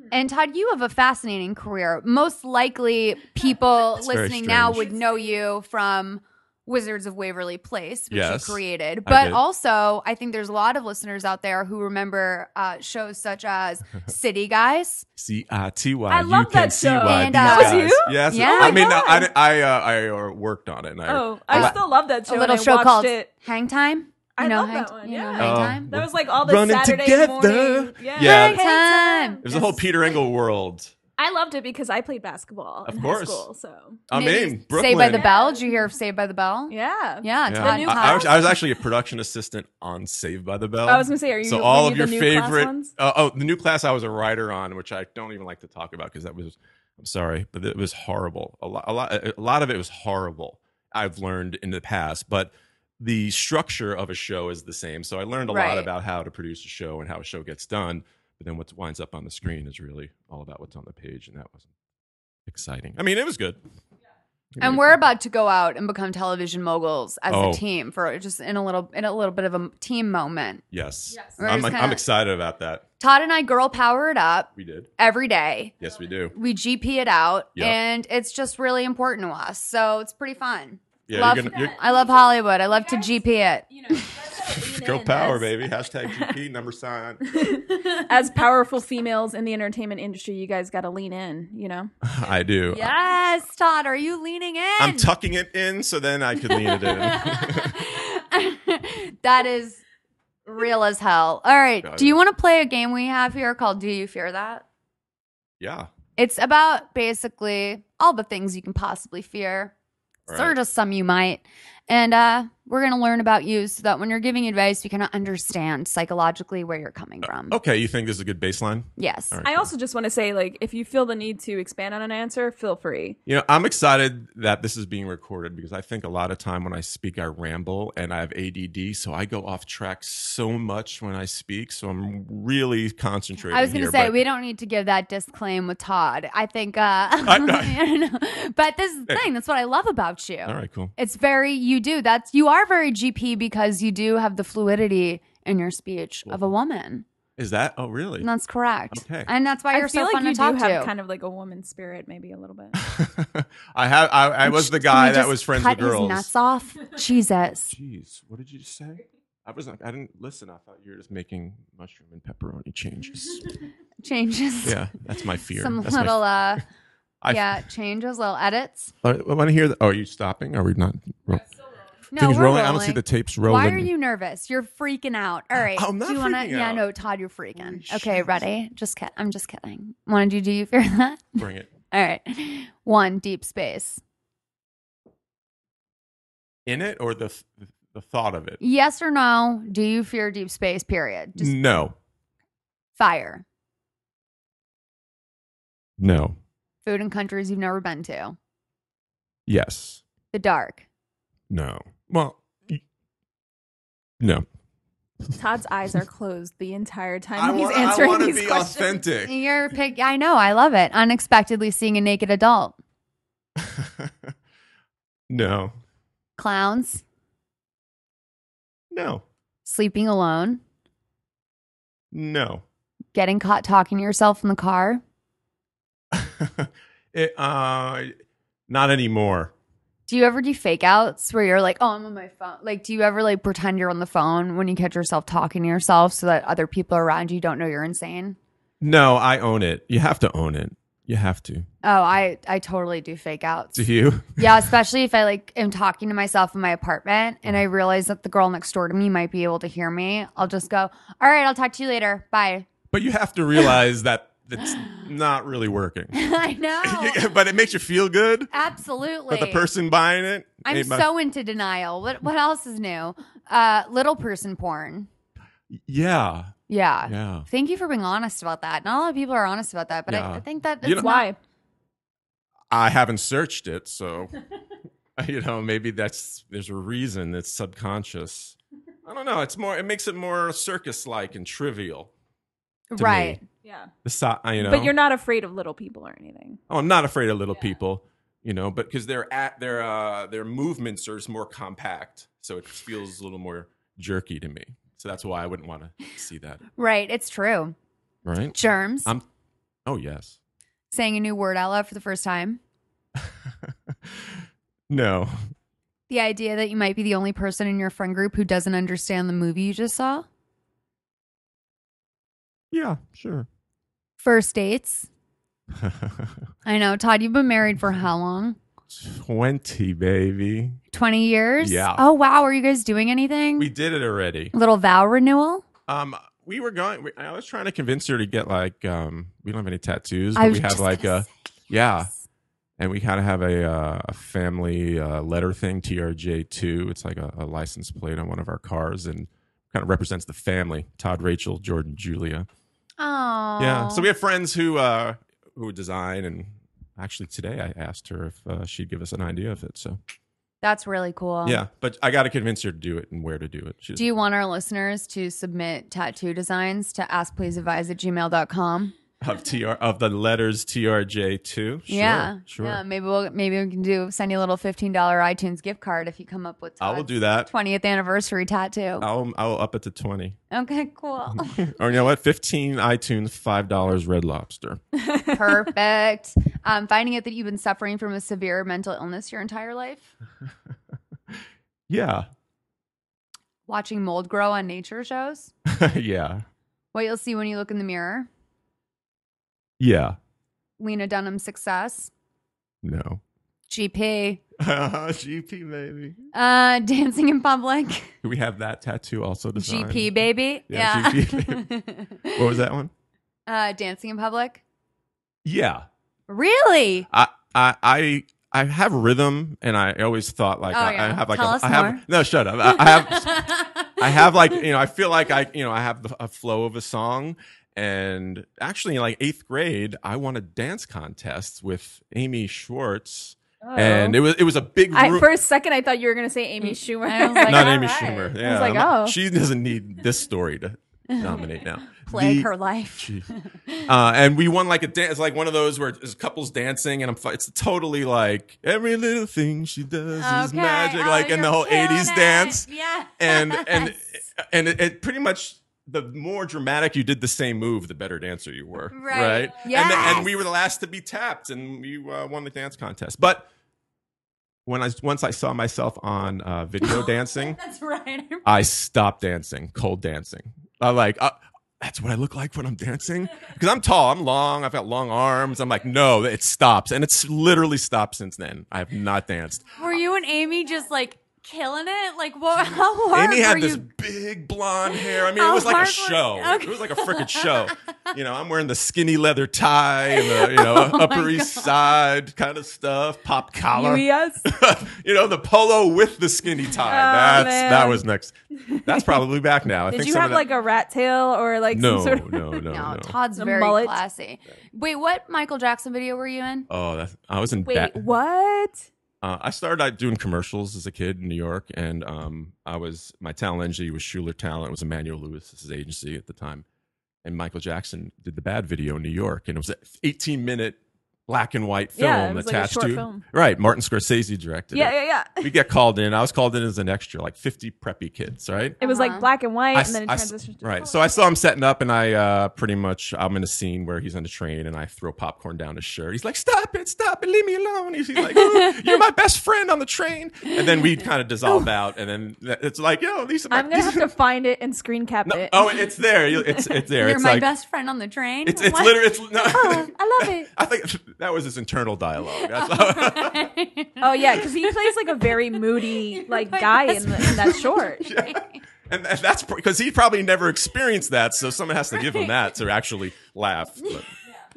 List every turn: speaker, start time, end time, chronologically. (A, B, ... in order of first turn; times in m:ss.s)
0:00.1-0:15.0 A
0:04.0-0:04.9 B
0:08.1-0:09.4 B
0:15.2-0:21.8 B
0:16.1-0:19.3 C
0:17.0-0:19.3 A
0:21.1-0:23.3 C
0:21.5-0:25.9 A
0:24.4-0:30.1 C
0:25.4-0:28.6 B
0:28.2-0:29.4 A
0:29.4-0:30.9 B
0:31.2-0:34.0 C
0:32.8-0:33.4 B
0:34.1-0:35.3 B
0:34.1-0:38.5 A
0:35.1-0:35.8 C
0:36.7-0:38.6 C
0:37.5-1:01.7 B
0:40.8-0:42.9 C
0:55.5-0:55.9 A
1:02.4-1:03.6 B
1:04.6-1:05.0 B
1:04.6-1:10.6 A
1:07.3-1:07.6 B
1:10.7-1:12.8 B
1:11.4-1:12.0 A
1:13.0-1:15.7 A
1:14.6-1:14.9 B
1:15.8-1:16.3 B
1:16.3-1:24.0 A
1:21.1-1:21.8 B
1:21.2-1:21.9 C
1:23.7-1:26.3 C
1:24.6-1:27.4 B
1:27.3-1:31.9 C
1:32.0-1:32.9 B
1:32.7-1:35.1 A
1:34.8-1:37.8 B
1:36.4-1:39.8 A
1:40.4-1:44.6 A
1:41.8-1:42.2 B
1:45.6-1:45.9 B
1:46.2-1:49.7 A
1:50.2-1:50.6 B
1:50.3-1:57.6 A
1:57.2-1:59.7 B
1:59.0-1:59.4 A
1:59.4-2:03.2 C
2:03.2-2:14.2 B
2:13.5-2:27.0 A
2:17.2-2:17.8 B
2:20.4-2:20.9 B
2:27.4-2:28.3 B
2:28.2-2:30.9 A
2:28.9-2:29.3 B
2:29.7-2:32.8 C
2:32.8-2:36.3 B
2:34.4-2:37.7 A
2:37.7-2:43.6 B
2:44.0-2:44.8 A
2:44.6-2:46.6 B
2:45.5-2:46.6 A
2:47.2-2:47.6 B
2:47.3-2:48.9 A
2:49.0-2:51.4 B
2:52.1-3:01.4 A
2:52.1-2:53.9 B
2:55.5-2:56.8 B
2:57.6-2:58.4 B
3:01.4-3:01.7 B
3:01.9-3:04.0 A
3:06.6-3:08.6 B
3:08.6-3:11.5 A
3:11.4-3:12.0 B
3:13.0-3:13.4 A
3:16.0-3:16.4 B
3:16.8-3:18.4 A
3:19.5-3:20.0 B
3:20.3-3:20.8 A
3:21.5-3:22.8 B
3:24.2-3:24.4 B
3:25.3-3:29.0 C
3:27.3-3:29.4 B
3:29.2-3:32.8 A
3:33.6-3:34.3 B
3:35.3-3:35.7 B
3:36.4-3:37.0 A
3:38.9-3:39.2 B
3:39.6-3:40.6 A
3:42.1-3:42.6 B
3:43.1-3:45.0 A
3:46.1-3:48.1 B
3:48.7-3:49.5 B
3:50.1-3:58.4 A
3:58.8-4:01.6 B
4:01.8-4:12.7 A
4:03.7-4:04.7 B
4:12.9-4:16.2 B
4:14.7-4:15.0 A
4:16.1-4:17.3 A
4:16.8-4:18.5 B
4:18.5-4:19.6 A
4:19.3-4:21.1 B
4:20.6-4:25.1 A
4:25.7-4:27.5 B
4:26.7-4:31.3 A
4:30.1-4:31.1 B
4:31.0-4:31.4 C
4:32.7-4:34.3 B
4:35.2-4:42.1 B
4:42.9-4:43.4 A
4:43.0-4:43.4 B
4:43.6-4:43.9 C
4:44.0-4:44.9 B
4:44.6-4:46.6 C
4:46.7-4:56.6 B
4:56.8-4:57.7 A
4:58.2-4:59.2 B
4:58.5-4:59.1 A
4:59.8-5:00.4 B
5:00.9-5:02.6 A
5:03.2-5:05.3 B
5:06.1-5:10.2 A
5:12.7-5:13.5 B
5:14.2-5:15.1 A
5:15.8-5:16.4 B
5:16.6-5:18.6 A
5:18.9-5:20.8 B
5:20.9-5:23.7 A
5:21.6-5:22.0 B
5:23.6-5:24.5 B
5:24.5-5:25.6 A
5:25.9-5:32.1 B
5:30.4-5:32.2 A
5:32.8-5:42.5 B
5:43.0-5:44.1 A
5:43.6-5:50.0 B
5:50.6-5:51.6 A
5:51.4-5:54.1 B
5:54.0-5:58.9 A
5:59.2-6:02.8 B
6:01.9-6:09.0 A
6:06.8-6:07.5 B
6:09.0-6:10.4 B
6:10.5-6:11.6 A
6:11.3-6:14.8 B
6:15.3-6:20.1 A
6:21.3-6:22.3 B
6:23.7-6:25.5 A
6:25.6-6:26.4 B
6:26.9-6:28.3 A
6:29.8-6:30.2 B
6:30.8-6:32.1 A
6:32.8-6:33.2 B
6:33.7-6:34.4 A
6:34.6-6:36.2 B
6:36.3-6:38.1 A
6:38.2-6:41.6 B
6:39.6-6:42.5 A
6:42.3-6:42.9 B
6:43.5-6:44.6 A
6:45.4-6:45.8 B
6:46.3-6:47.1 A
6:47.1-7:05.3 B
6:50.7-6:52.0 A
6:52.7-6:54.3 A
7:03.6-7:04.2 C
7:04.9-7:09.2 C
7:06.6-7:08.3 A
7:07.4-7:13.3 B
7:11.1-7:11.4 A
7:12.0-7:13.9 A
7:13.8-7:33.5 B
7:20.2-7:24.0 A
7:28.9-7:30.3 A
7:34.6-7:37.6 B
7:36.8-7:38.5 A
7:38.4-7:49.7 B
7:49.8-7:53.8 A
7:53.1-8:10.4 B
7:54.9-7:57.7 A
8:00.1-8:01.7 A
8:03.7-8:04.4 C
8:06.8-8:08.0 C
8:08.6-8:09.2 C
8:09.9-8:12.7 C
8:11.7-8:13.2 B
8:12.7-8:16.7 A
8:13.4-8:14.0 C
8:16.7-8:18.0 B
8:17.6-8:18.9 C
8:19.2-8:26.6 B
8:27.2-8:38.8 B
8:32.0-8:33.2 C
8:34.7-8:35.4 C
8:38.8-8:39.2 A
8:38.8-8:41.0 C
8:39.7-8:54.1 B
8:48.3-8:48.8 A
8:53.5-8:55.8 C
8:55.2-8:57.5 B
8:57.0-8:59.9 A
8:58.4-9:03.5 B
8:59.5-9:00.5 C
9:02.4-9:04.4 A
9:04.0-9:08.0 C
9:06.1-9:08.6 A
9:07.2-9:14.1 B